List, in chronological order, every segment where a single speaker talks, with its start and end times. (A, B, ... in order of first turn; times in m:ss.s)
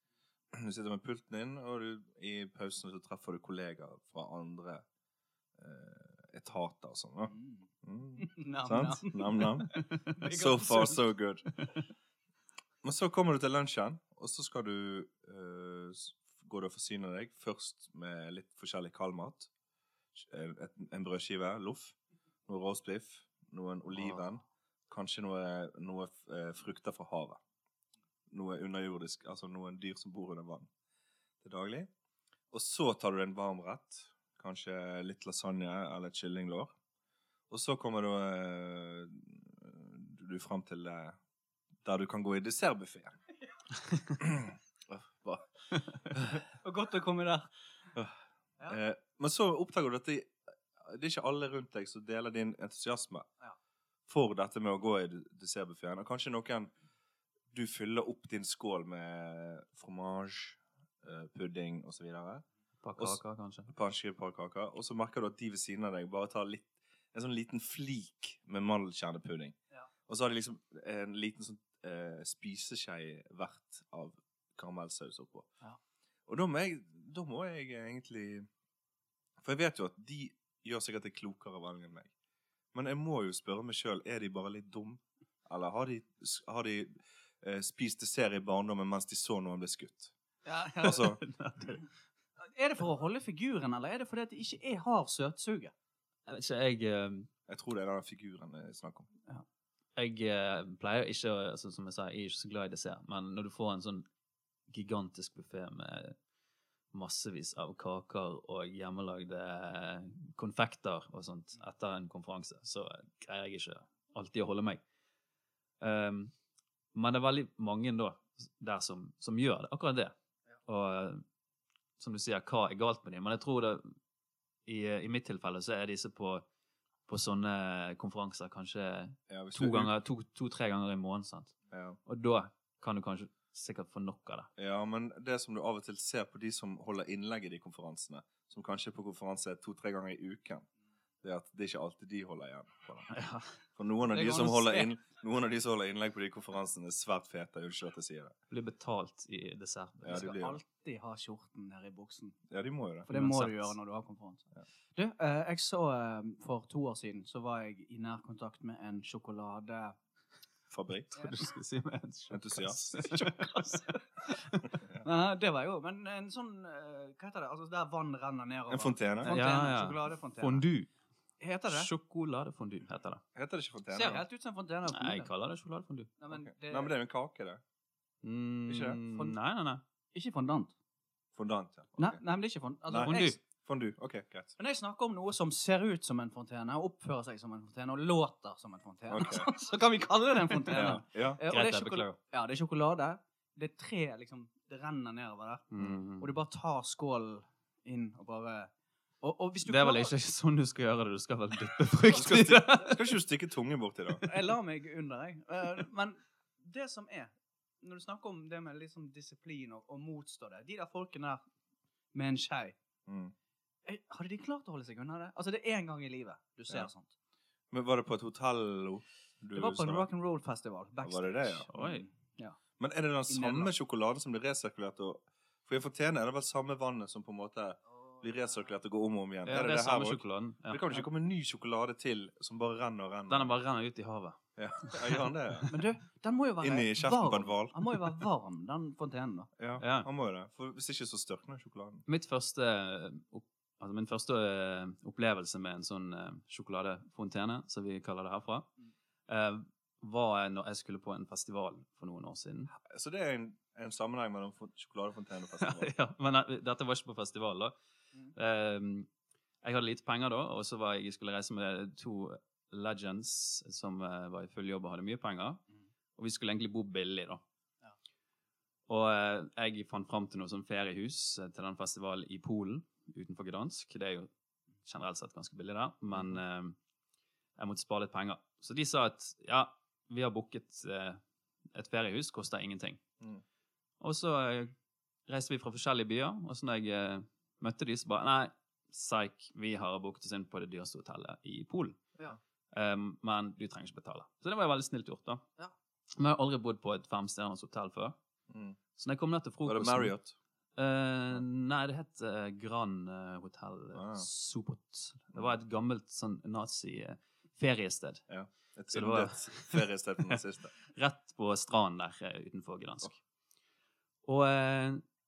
0:00.5-0:04.8 A
0:05.6-0:11.4 A
0:07.3-0:07.6 B
0:08.2-0:11.1 B
0:12.8-0:19.5 A
0:20.1-0:22.0 A
0:22.5-0:27.4 A
0:28.3-0:30.7 A
0:31.4-0:31.9 A
0:32.5-0:36.7 A
0:37.5-0:41.2 A
0:41.8-0:43.2 A
0:44.2-0:45.5 A
0:46.0-0:46.4 A
0:46.6-0:47.5 B
0:47.9-0:53.3 A
0:54.1-0:56.7 A
0:57.5-1:02.4 A
1:02.8-1:03.7 C
1:03.0-1:09.6 A
1:10.1-1:15.5 A
1:16.3-1:18.5 A
1:19.4-1:22.1 A
1:22.7-1:30.1 A
1:30.4-1:31.0 B
1:30.8-1:31.2 A
1:30.8-1:31.8 C
1:32.4-1:35.7 B
1:36.3-1:37.3 C
1:37.5-1:39.1 A
1:40.0-1:44.0 C
1:44.7-1:46.2 C
1:46.9-1:54.8 C
1:55.8-1:56.3 C
1:56.9-2:00.1 C
2:00.6-2:01.2 C
2:02.0-2:03.9 C
2:04.6-2:06.4 C
2:07.1-2:11.5 C
2:09.3-2:09.9 A
2:11.7-2:12.0 A
2:12.0-2:14.5 C
2:14.6-2:20.6 A
2:21.2-2:23.1 A
2:23.1-2:23.5 C
2:23.8-2:28.3 A
2:24.1-2:24.9 B
2:28.5-2:30.3 C
2:30.0-2:30.6 A
2:30.1-2:32.4 B
2:32.5-2:33.1 A
2:33.1-2:40.0 B
2:33.1-2:33.8 C
2:40.7-2:41.2 A
2:41.1-2:43.8 C
2:42.3-2:42.9 A
2:42.9-2:44.4 B
2:45.0-2:50.6 B
2:48.7-2:49.4 A
2:49.2-2:50.9 C
2:51.4-2:51.9 B
2:51.7-2:53.2 C
2:53.3-2:54.2 A
2:53.9-2:55.3 B
2:54.9-2:56.1 C
2:56.2-2:56.9 B
2:56.3-2:57.6 A
2:58.2-2:59.8 C
2:58.7-2:59.0 A
2:59.0-2:59.4 B
3:00.1-3:00.7 B
3:01.3-3:02.2 A
3:02.0-3:03.4 B
3:02.9-3:04.5 A
3:03.0-3:03.4 C
3:04.6-3:18.7 B
3:09.1-3:09.5 A
3:10.7-3:12.2 C
3:10.7-3:11.4 A
3:15.7-3:16.3 C
3:19.2-3:20.1 B
3:19.6-3:23.0 C
3:22.1-3:22.8 B
3:22.1-3:24.3 A
3:24.2-3:31.4 B
3:32.1-3:32.8 B
3:33.1-3:33.3 A
3:33.8-3:37.1 B
3:37.7-3:40.1 A
3:39.5-3:42.6 B
3:41.0-3:41.7 A
3:41.7-3:42.0 C
3:42.8-3:53.6 A
3:43.3-3:43.7 B
3:49.4-3:51.1 C
3:53.3-3:55.7 C
3:54.6-3:55.7 A
3:55.7-3:59.5 B
3:56.6-3:58.2 A
3:59.6-4:02.0 A
3:59.8-4:00.1 C
4:02.1-4:08.7 C
4:09.3-4:12.7 C
4:12.7-4:15.9 A
4:15.6-4:17.7 C
4:18.3-4:19.1 C
4:19.6-4:25.6 C
4:26.2-4:27.4 C
4:28.9-4:34.3 C
4:34.8-4:36.8 C
4:36.1-4:36.4 A
4:37.6-4:41.2 C
4:41.7-4:43.0 C
4:44.0-4:44.7 C
4:45.3-4:52.0 C
4:52.7-4:55.4 C
4:56.2-4:58.2 C
4:58.5-4:58.8 A
4:59.0-5:00.1 C
4:59.6-5:00.3 A
5:00.8-5:08.2 C
5:03.9-5:04.3 A
5:08.3-5:10.7 A
5:08.9-5:13.2 C
5:14.2-5:15.0 C